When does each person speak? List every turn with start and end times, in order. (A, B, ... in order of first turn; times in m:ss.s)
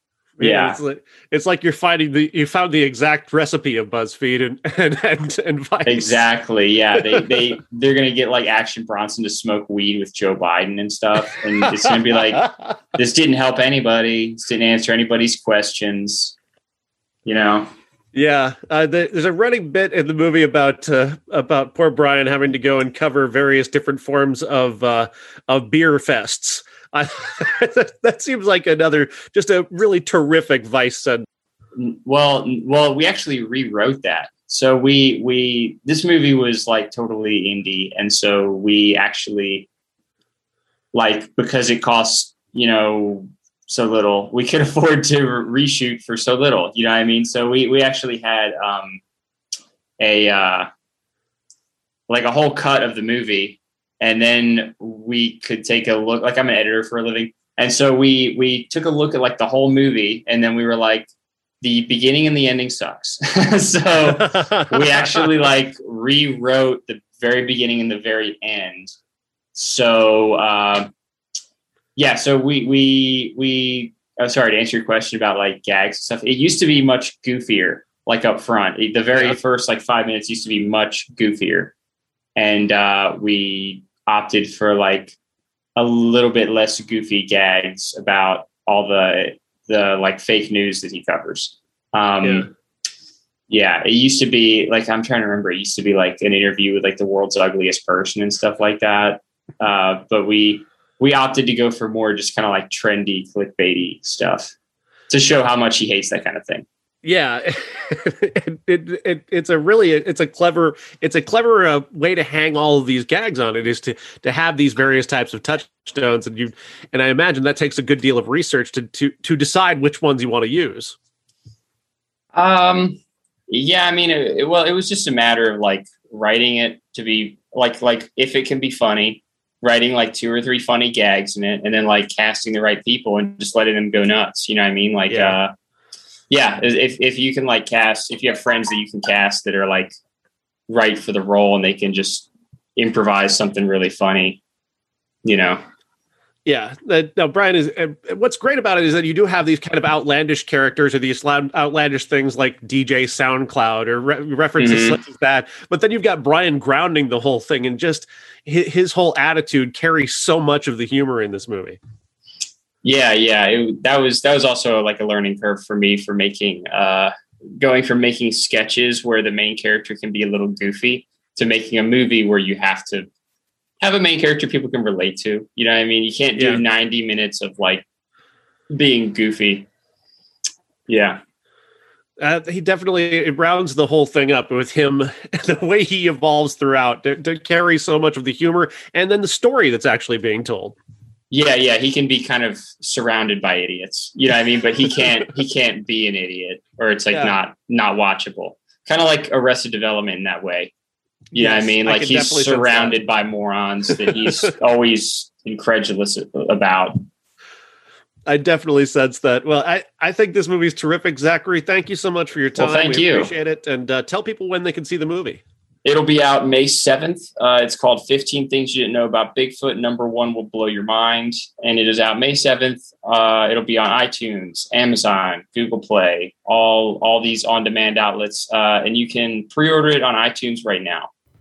0:00.4-0:06.2 A
0:00.4-0:00.8 B
0:05.8-0:16.4 B
0:11.6-0:12.8 A
0:17.2-0:17.7 B
0:18.1-0:31.2 A
0:31.7-0:39.7 B
0:40.9-0:49.0 B
0:50.0-0:50.7 B
0:52.1-1:01.1 B
1:01.6-1:08.9 B
1:04.1-1:05.3 A
1:09.5-1:10.9 B
1:12.0-1:21.7 B
1:22.4-1:25.2 B
1:25.8-1:32.5 B
1:32.2-1:32.5 A
1:33.5-1:44.5 B
1:45.1-1:46.6 B
1:47.0-2:01.0 A
2:02.3-2:15.5 B
2:15.1-2:15.4 A
2:16.3-2:19.9 B
2:20.7-2:24.4 B
2:25.2-2:25.6 B
2:26.4-2:41.8 A
2:34.6-2:35.0 B
2:42.8-2:53.1 B
2:53.8-2:57.8 B
2:56.4-2:56.6 A
2:58.7-2:59.7 B
3:00.9-3:01.2 B
3:02.2-3:10.8 A
3:11.3-3:20.7 B
3:21.3-3:23.0 A
3:21.3-3:27.0 B
3:28.3-3:35.4 A
3:32.6-3:33.3 B
3:35.8-3:51.1 B